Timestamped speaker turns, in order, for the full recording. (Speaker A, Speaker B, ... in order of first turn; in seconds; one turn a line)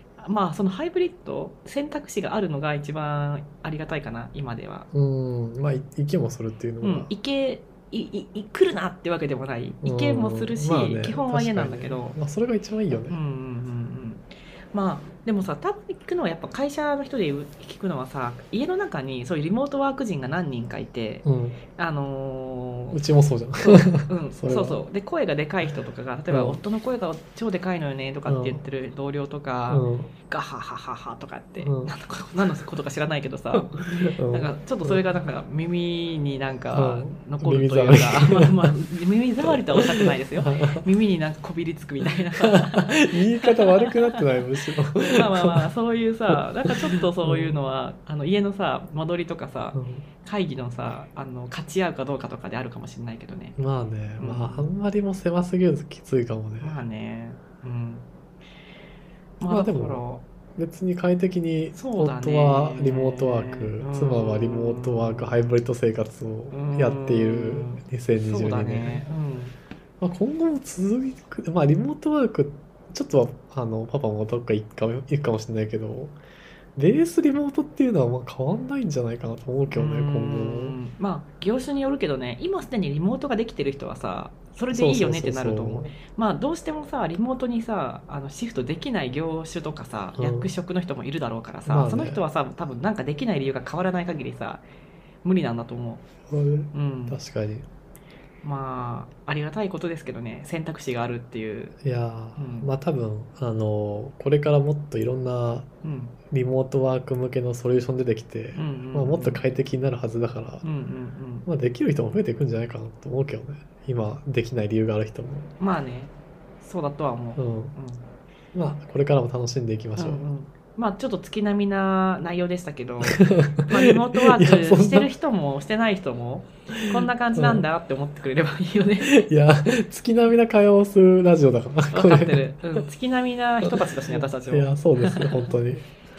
Speaker A: 0.2-4.9
Speaker B: 4.9-7.1
Speaker A: 6.8-12.2
Speaker B: 9.8-13.2
Speaker A: 13.0-23.0
Speaker B: 21.2-21.6
Speaker B: 22.9-24.8
Speaker A: 23.6-44.2
Speaker B: 26.3-26.6
Speaker B: 28.2-28.6
Speaker B: 29.7-30.1
Speaker B: 31.6-31.9
Speaker B: 33.5-35.0
Speaker B: 36.7-38.8
Speaker B: 39.4-40.9
Speaker B: 42.4-45.7
Speaker A: 45.0-53.5
Speaker B: 46.3-47.6
Speaker B: 49.7-50.1
Speaker B: 53.6-56.8
Speaker A: 54.2-54.7
Speaker A: 56.6-58.0
Speaker A: 59.4-60.2
Speaker B: 59.5-69.0
Speaker A: 61.7-65.4
Speaker A: 66.5-69.5
Speaker B: 70.0-76.2
Speaker B: 76.8-80.8
Speaker A: 79.7-94.6
Speaker B: 84.7-85.9
Speaker B: 90.2-90.5
Speaker B: 91.7-92.2
Speaker A: 95.2-96.0
Speaker B: 96.3-97.7
Speaker A: 96.7-97.2
Speaker A: 98.4-101.7
Speaker B: 101.8-105.7
Speaker A: 102.3-102.7
Speaker A: 105.8-106.1
Speaker B: 106.3-110.7
Speaker A: 108.5-109.4
Speaker A: 110.6-111.5
Speaker B: 111.5-115.5
Speaker A: 115.6-118.0
Speaker B: 117.3-117.8
Speaker B: 118.5-120.3
Speaker A: 120.0-129.2
Speaker B: 123.1-125.1
Speaker B: 126.7-127.7
Speaker B: 129.0-132.8
Speaker A: 131.9-135.5
Speaker B: 133.6-135.8